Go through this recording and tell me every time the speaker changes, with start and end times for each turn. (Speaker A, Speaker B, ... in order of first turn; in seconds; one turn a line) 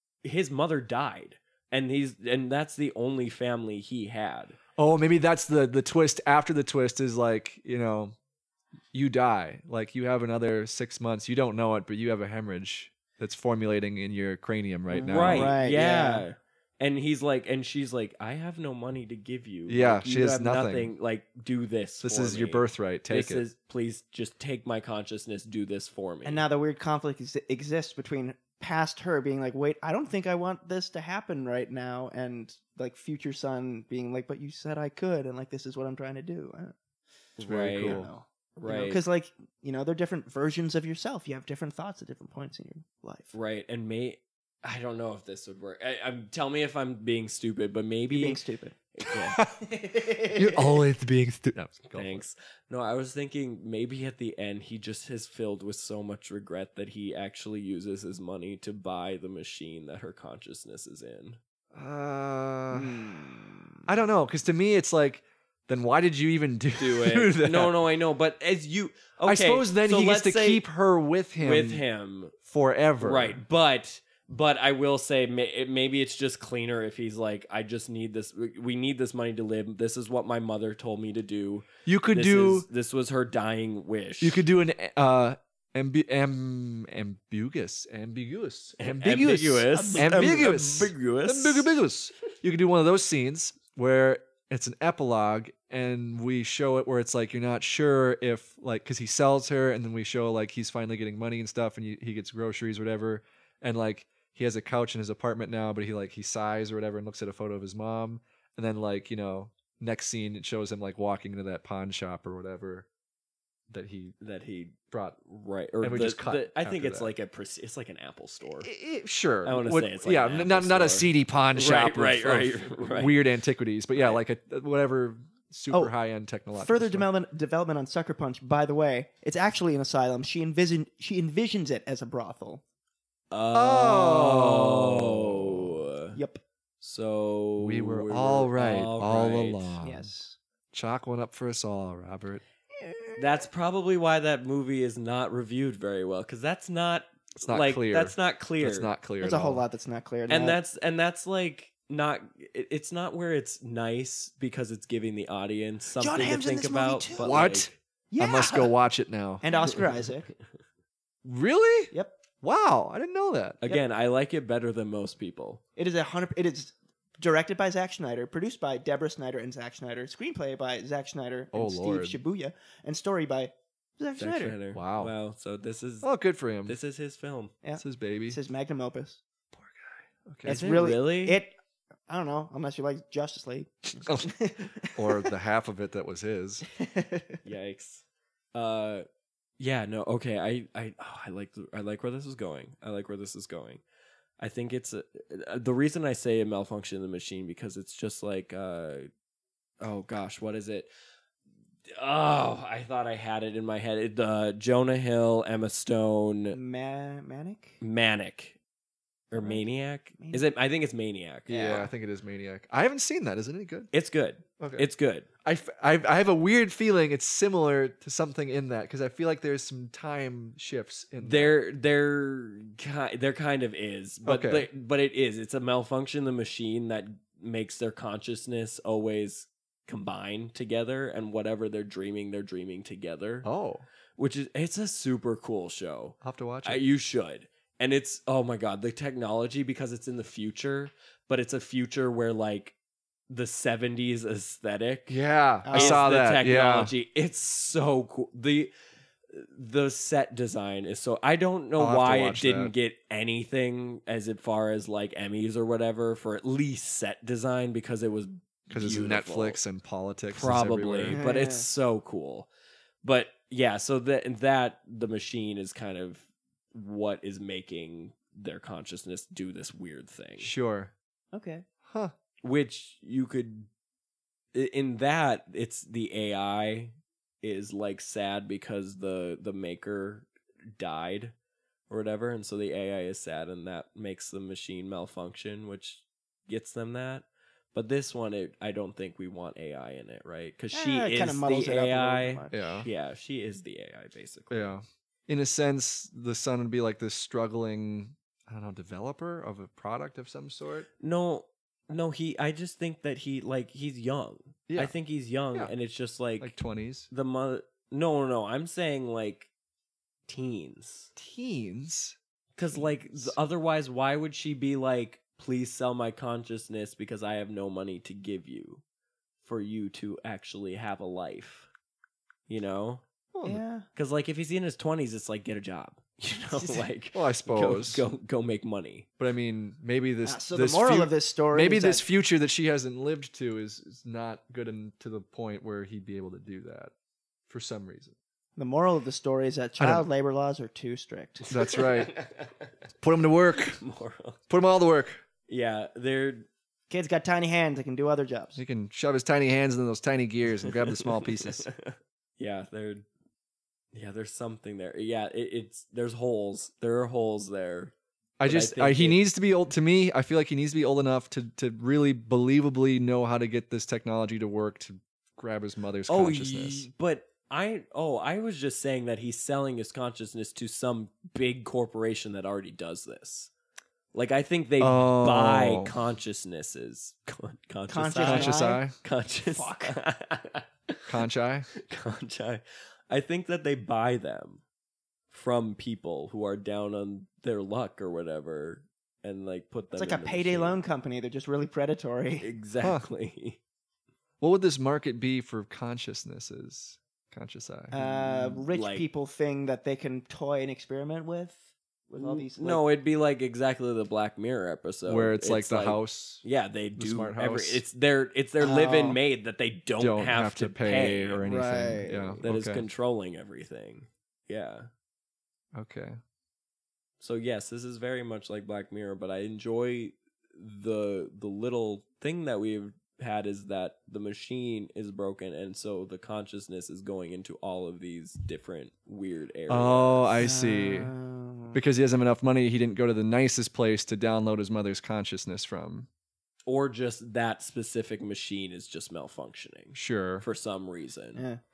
Speaker A: 0.2-4.6
Speaker B: 4.8-8.2
Speaker B: 8.9-15.6
Speaker C: 14.9-16.3
Speaker A: 15.0-26.4
Speaker B: 19.7-20.9
Speaker B: 22.0-23.4
Speaker C: 26.2-36.7
Speaker A: 37.4-39.0
Speaker B: 37.4-38.1
Speaker C: 37.8-43.3
Speaker A: 43.3-48.4
Speaker C: 48.1-48.8
Speaker A: 49.0-49.4
Speaker B: 49.1-49.6
Speaker C: 49.6-50.8
Speaker B: 50.3-52.2
Speaker A: 51.9-61.4
Speaker B: 61.7-63.3
Speaker C: 62.7-63.9
Speaker B: 63.9-67.8
Speaker A: 66.8-70.7
Speaker B: 69.2-71.8
Speaker A: 71.4-72.3
Speaker B: 72.4-73.4
Speaker A: 73.0-84.5
Speaker B: 81.8-82.7
Speaker B: 84.2-112.9
Speaker A: 88.8-91.7
Speaker C: 89.7-90.6
Speaker B: 113.7-114.2
Speaker A: 114.2-118.7
Speaker B: 114.9-115.2
Speaker B: 115.8-117.1
Speaker B: 118.6-127.1
Speaker A: 119.4-123.2
Speaker A: 123.9-124.2
Speaker C: 126.6-132.6
Speaker A: 133.3-136.2
Speaker B: 133.5-135.8
Speaker C: 136.2-136.4
Speaker A: 136.8-139.8
Speaker B: 137.6-140.1
Speaker C: 139.8-140.4
Speaker B: 140.7-142.4
Speaker A: 143.2-148.9
Speaker B: 147.4-149.6
Speaker C: 149.2-150.6
Speaker A: 150.3-157.7
Speaker C: 156.0-157.5
Speaker B: 157.2-159.5
Speaker C: 158.1-158.7
Speaker C: 159.4-160.3
Speaker B: 161.2-163.6
Speaker C: 161.9-162.2
Speaker A: 163.6-165.6
Speaker C: 165.8-174.6
Speaker B: 171.5-172.2
Speaker A: 174.2-176.1
Speaker B: 174.7-175.1
Speaker B: 176.0-176.8
Speaker A: 176.7-177.5
Speaker C: 177.6-179.2
Speaker B: 177.8-178.4
Speaker B: 179.5-180.9
Speaker A: 180.4-181.4
Speaker C: 180.4-181.5
Speaker C: 182.1-185.3
Speaker B: 184.0-184.3
Speaker B: 184.9-186.7
Speaker C: 186.8-187.4
Speaker A: 187.4-189.1
Speaker A: 189.6-193.8
Speaker A: 194.4-199.1
Speaker A: 199.8-200.9
Speaker A: 202.0-206.6
Speaker C: 206.5-207.8
Speaker A: 207.8-208.6
Speaker A: 209.3-211.8
Speaker C: 209.3-210.4
Speaker C: 211.5-211.9
Speaker B: 211.5-213.9
Speaker A: 213.9-215.3
Speaker B: 214.6-214.9
Speaker B: 215.4-221.6
Speaker A: 221.2-233.5
Speaker B: 224.2-224.7
Speaker B: 233.4-233.8
Speaker A: 234.2-242.8
Speaker B: 236.2-236.8
Speaker A: 243.3-245.2
Speaker B: 245.1-246.9
Speaker C: 245.6-246.1
Speaker A: 245.7-248.7
Speaker A: 249.3-259.6
Speaker B: 251.8-252.7
Speaker B: 258.7-261.2
Speaker A: 260.3-262.5
Speaker C: 261.1-261.7
Speaker A: 263.0-270.5
Speaker B: 270.4-270.9
Speaker C: 271.3-271.6
Speaker B: 271.9-272.1
Speaker A: 272.4-273.7
Speaker A: 274.5-281.3
Speaker A: 281.9-294.7
Speaker C: 290.7-292.8
Speaker B: 292.5-292.9
Speaker B: 294.5-300.9
Speaker A: 301.0-306.5
Speaker B: 304.7-304.9
Speaker B: 306.4-307.1
Speaker A: 307.1-309.5
Speaker A: 310.3-311.1
Speaker B: 311.2-313.4
Speaker A: 312.6-318.8
Speaker A: 319.4-321.7
Speaker A: 322.5-323.0
Speaker B: 323.3-323.6
Speaker C: 323.4-323.9
Speaker A: 323.9-329.1
Speaker C: 326.5-326.8
Speaker B: 327.1-328.1
Speaker B: 329.2-336.9
Speaker C: 330.2-332.0
Speaker B: 337.5-338.1
Speaker C: 338.6-341.4
Speaker B: 339.8-340.1
Speaker A: 341.5-342.7
Speaker B: 341.5-342.1
Speaker B: 343.0-343.8
Speaker A: 343.6-344.4
Speaker B: 344.5-345.2
Speaker A: 345.5-346.5
Speaker C: 346.9-348.6
Speaker B: 348.6-351.7
Speaker A: 350.8-353.1
Speaker A: 353.9-357.9
Speaker B: 358.4-366.9
Speaker A: 358.4-359.2
Speaker A: 366.1-373.5
Speaker A: 374.1-381.1
Speaker B: 374.8-375.9
Speaker C: 377.9-378.8
Speaker B: 378.2-378.9
Speaker C: 379.5-380.0
Speaker B: 381.1-381.7
Speaker A: 381.8-384.6
Speaker A: 385.3-390.8
Speaker C: 389.9-392.5
Speaker A: 392.4-393.6
Speaker B: 394.4-397.9
Speaker C: 397.9-401.6
Speaker A: 397.9-399.1
Speaker C: 402.1-402.8
Speaker A: 402.2-411.4
Speaker B: 405.1-406.4
Speaker B: 407.0-407.8
Speaker C: 408.6-409.2
Speaker B: 410.0-412.9
Speaker C: 411.4-412.4
Speaker A: 412.4-414.9
Speaker B: 415.7-416.2
Speaker A: 417.2-430.3
Speaker B: 429.7-431.1
Speaker C: 430.4-431.8
Speaker B: 431.7-436.1
Speaker A: 436.7-441.4
Speaker B: 439.9-440.5
Speaker C: 441.4-441.6